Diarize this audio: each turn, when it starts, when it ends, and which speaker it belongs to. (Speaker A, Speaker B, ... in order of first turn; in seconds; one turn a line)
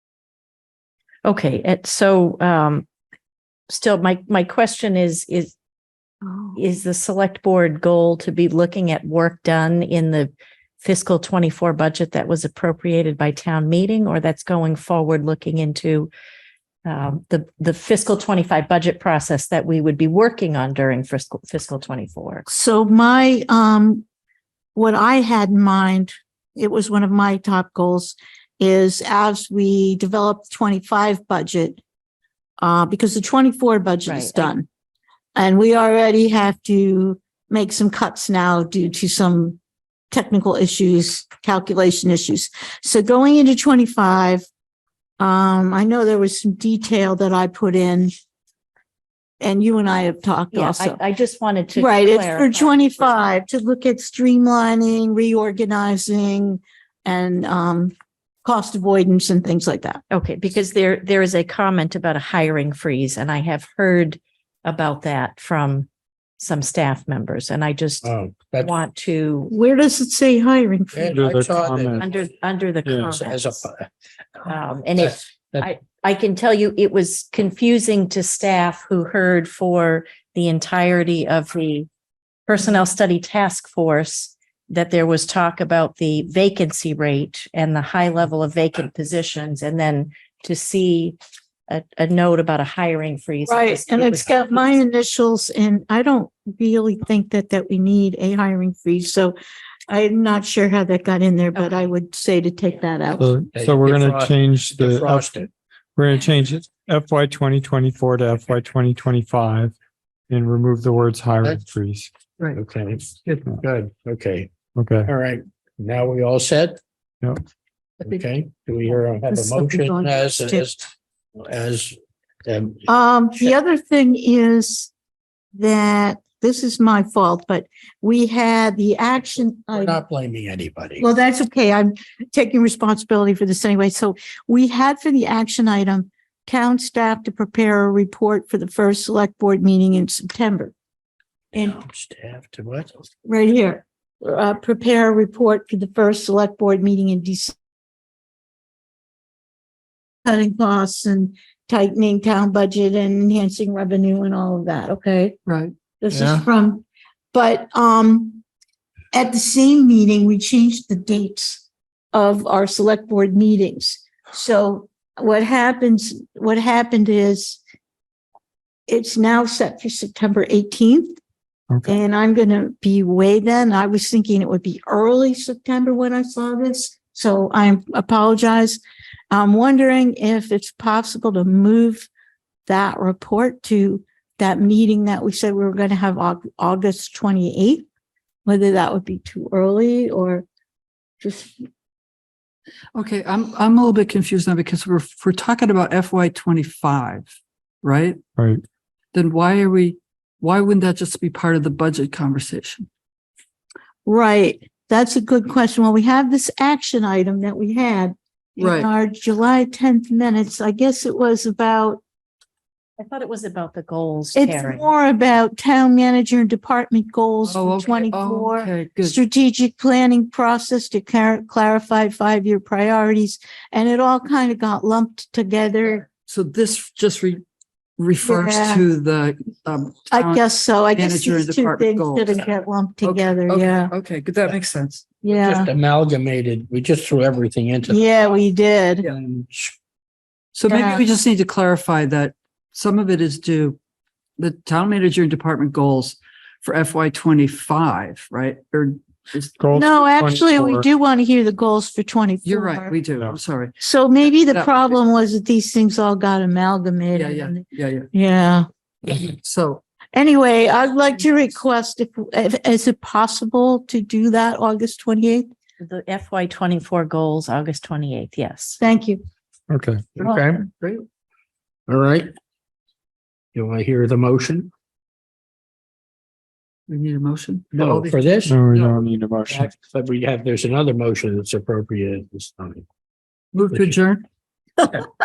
Speaker A: 1.2-2.9
Speaker A: 3.7-5.5
Speaker B: 6.2-6.6
Speaker A: 6.6-16.1
Speaker A: 16.9-22.5
Speaker B: 22.5-24.1
Speaker B: 24.8-31.8
Speaker B: 32.6-34.7
Speaker A: 34.1-34.5
Speaker B: 35.4-39.6
Speaker B: 40.1-44.5
Speaker B: 45.2-48.1
Speaker B: 49.4-51.0
Speaker A: 50.5-53.1
Speaker B: 51.8-57.9
Speaker B: 58.4-60.0
Speaker A: 60.1-65.9
Speaker A: 66.4-69.5
Speaker C: 68.0-68.8
Speaker B: 69.5-71.2
Speaker C: 70.9-72.2
Speaker D: 71.1-72.0
Speaker A: 72.0-73.7
Speaker D: 72.9-73.2
Speaker C: 73.2-73.9
Speaker A: 74.5-81.9
Speaker C: 75.0-75.7
Speaker A: 82.5-91.2
Speaker A: 91.7-94.5
Speaker B: 93.5-99.4
Speaker B: 99.9-103.3
Speaker A: 101.5-101.8
Speaker D: 103.2-105.4
Speaker C: 103.5-105.5
Speaker D: 106.0-109.8
Speaker D: 110.3-112.1
Speaker C: 112.5-114.5
Speaker D: 114.8-115.1
Speaker C: 115.1-116.8
Speaker C: 118.0-120.8
Speaker B: 119.3-120.7
Speaker C: 121.4-122.9
Speaker B: 122.9-124.9
Speaker B: 125.5-130.0
Speaker C: 129.7-131.1
Speaker B: 131.0-140.7
Speaker C: 141.5-143.0
Speaker B: 143.2-147.5
Speaker B: 150.2-155.4
Speaker E: 155.5-155.7
Speaker B: 156.0-158.4
Speaker D: 156.1-156.5
Speaker B: 159.1-167.6
Speaker B: 168.9-171.2
Speaker D: 171.7-172.0
Speaker B: 171.9-182.1
Speaker B: 182.7-187.9
Speaker B: 188.4-190.5
Speaker B: 191.2-191.6
Speaker E: 192.9-197.3
Speaker E: 197.8-198.2
Speaker D: 198.4-198.6
Speaker E: 199.1-202.9
Speaker B: 204.1-212.0
Speaker E: 208.6-208.9
Speaker A: 213.0-214.9
Speaker B: 214.3-226.1
Speaker E: 217.4-219.2
Speaker E: 226.3-227.4
Speaker E: 228.0-232.4
Speaker B: 228.2-228.8
Speaker B: 230.1-233.9
Speaker E: 233.0-235.1
Speaker B: 235.2-235.7
Speaker C: 235.3-238.0
Speaker B: 237.9-239.1
Speaker E: 239.0-239.3
Speaker C: 239.3-239.7
Speaker E: 240.5-243.8
Speaker B: 240.7-241.1
Speaker E: 244.4-249.5
Speaker D: 249.6-250.9
Speaker B: 249.7-253.0
Speaker E: 252.4-253.7
Speaker B: 253.8-257.6
Speaker E: 257.1-258.1
Speaker B: 258.1-258.7
Speaker E: 259.1-259.8
Speaker B: 260.1-265.5
Speaker A: 265.8-268.8
Speaker B: 268.8-269.2
Speaker D: 269.7-270.1
Speaker C: 270.2-270.7
Speaker E: 270.2-271.1
Speaker C: 271.9-272.3
Speaker C: 273.6-274.7
Speaker E: 276.9-278.2
Speaker C: 277.8-278.6
Speaker D: 278.4-279.7
Speaker C: 279.5-282.9
Speaker E: 283.5-284.2
Speaker C: 283.7-284.0